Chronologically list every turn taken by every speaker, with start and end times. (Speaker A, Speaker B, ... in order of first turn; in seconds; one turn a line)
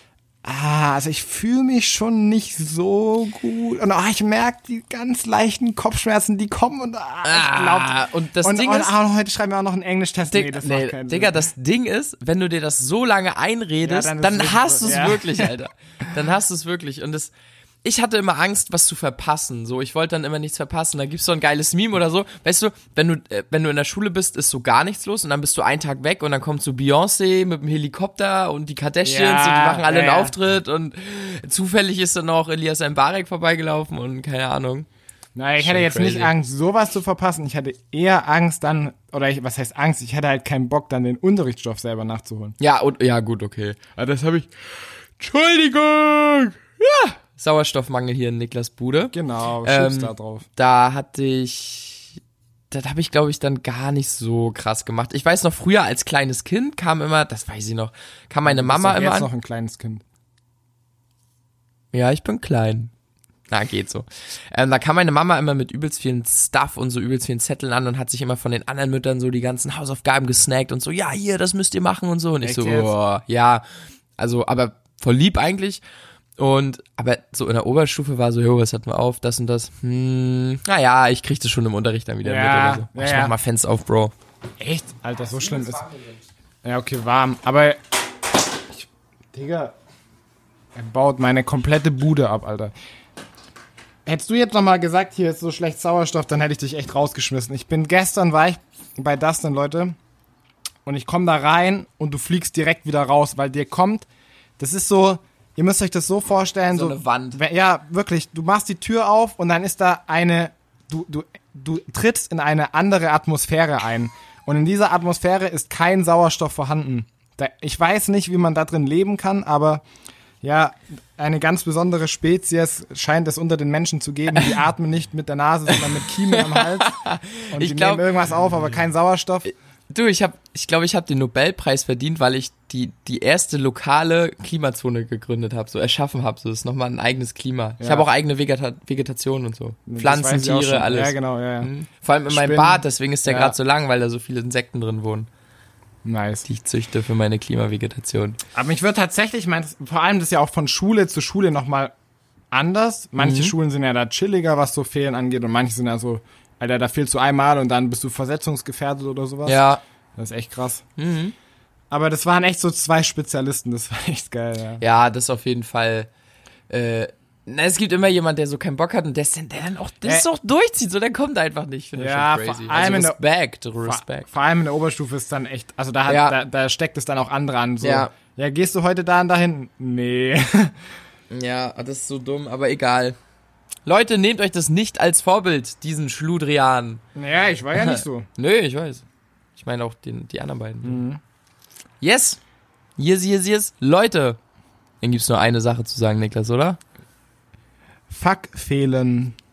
Speaker A: 0.4-11.4
Speaker B: 7.2-8.9
Speaker B: 10.3-17.3
Speaker A: 13.8-15.5
Speaker B: 17.8-34.9
Speaker A: 29.1-30.4
Speaker A: 35.4-42.6
Speaker B: 35.6-36.3
Speaker B: 42.6-52.2
Speaker A: 49.1-50.5
Speaker B: 52.7-59.3
Speaker A: 58.5-60.0
Speaker B: 61.9-62.9
Speaker B: 63.5-73.7
Speaker A: 72.4-72.9
Speaker B: 74.2-75.8
Speaker B: 76.4-84.1
Speaker A: 82.2-83.3
Speaker A: 84.6-85.9
Speaker B: 85.2-86.2
Speaker A: 86.6-87.8
Speaker A: 88.7-89.7
Speaker A: 90.8-92.7
Speaker A: 94.1-100.0
Speaker A: 100.9-104.1
Speaker A: 104.6-119.8
Speaker B: 106.7-107.4
Speaker A: 120.4-127.0
Speaker B: 125.7-128.0
Speaker A: 127.5-129.5
Speaker B: 129.9-145.3
Speaker A: 137.8-138.1
Speaker A: 139.9-141.7
Speaker A: 142.3-143.6
Speaker A: 146.1-146.4
Speaker B: 146.5-148.4
Speaker A: 148.5-151.9
Speaker A: 152.5-159.6
Speaker B: 153.2-153.6
Speaker B: 159.4-159.8
Speaker A: 160.2-160.8
Speaker B: 161.0-161.3
Speaker A: 161.9-164.8
Speaker B: 164.8-166.1
Speaker B: 166.7-174.3
Speaker A: 171.9-173.2
Speaker A: 173.8-180.7
Speaker B: 176.1-176.4
Speaker B: 177.8-178.1
Speaker B: 181.3-183.2
Speaker B: 183.8-187.0
Speaker A: 187.2-188.3
Speaker B: 187.7-189.1
Speaker B: 189.6-191.0
Speaker A: 190.8-191.2
Speaker B: 192.0-192.4
Speaker B: 193.0-194.4
Speaker B: 195.0-196.8
Speaker A: 198.1-199.4